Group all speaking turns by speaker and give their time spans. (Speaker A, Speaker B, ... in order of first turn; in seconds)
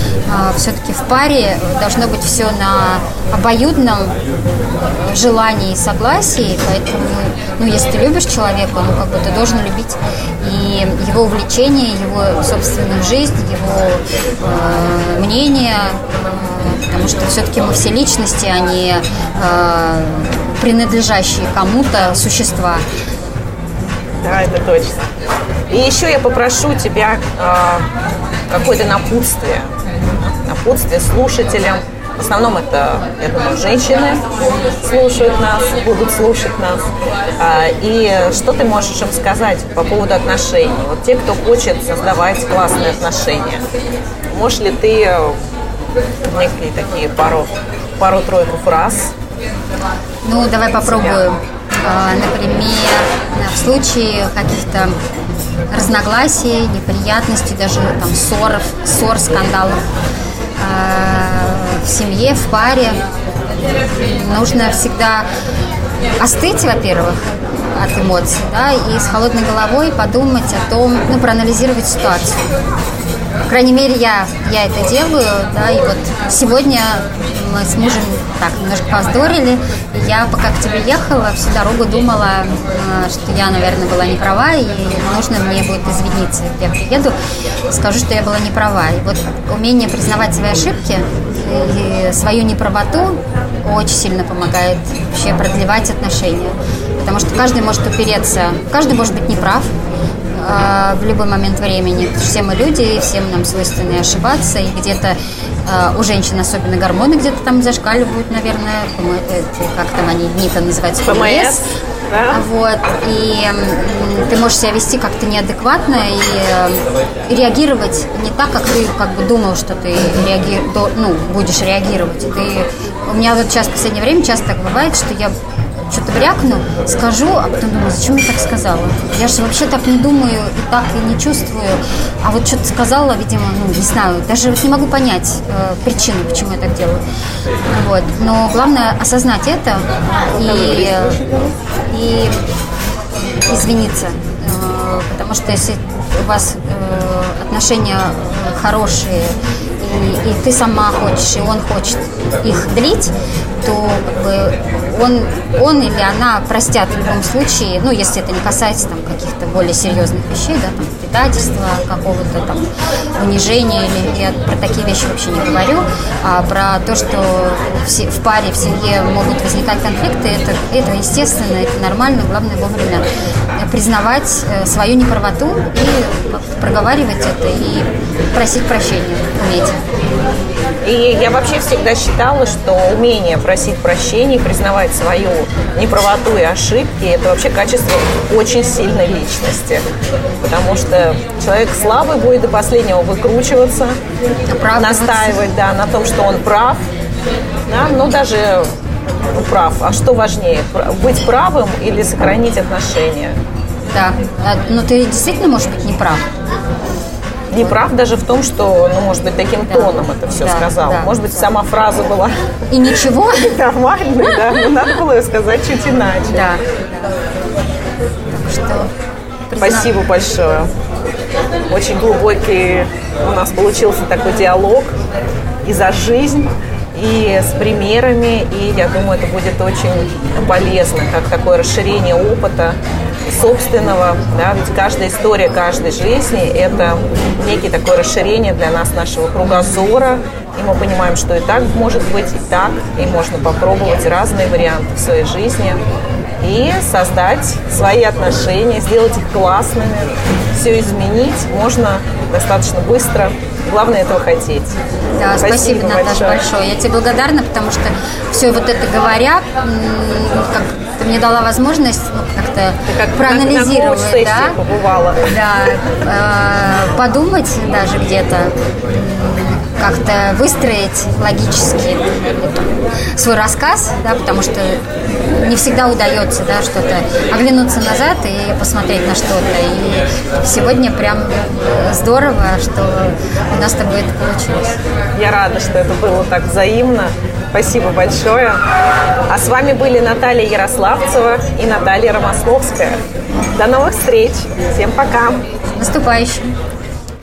Speaker A: 0.3-22.8, 50.2-55.0, 55.7-59.9, 60.6-63.0, 63.9-65.3, 66.2-72.5, 73.5-87.2, 87.7-99.8, 100.3-111.6, 112.3-125.3, 125.9-137.0, 137.7-141.2, 141.9-142.4, 143.5-179.8, 194.5-195.4, 203.9-206.3, 209.7-211.1, 212.7-213.6, 216.3-216.7, 218.3-218.9, 219.5-219.9, 255.2-264.6, 265.2-284.8, 295.8-296.5
Speaker B: 24.2-25.1, 25.7-27.9, 28.5-29.7, 30.2-36.8, 37.4-43.7, 44.3-45.4, 46.2-49.1, 111.0-112.4, 140.4-141.5, 180.8-189.9, 190.4-194.0, 194.7-196.8, 197.7-198.7, 199.3-203.4, 207.5-212.3, 213.3-216.5, 219.6-220.7, 221.7-225.0, 225.6-245.8, 246.4-254.8, 255.3-256.4, 262.9-265.4, 285.1-288.6, 289.3-295.4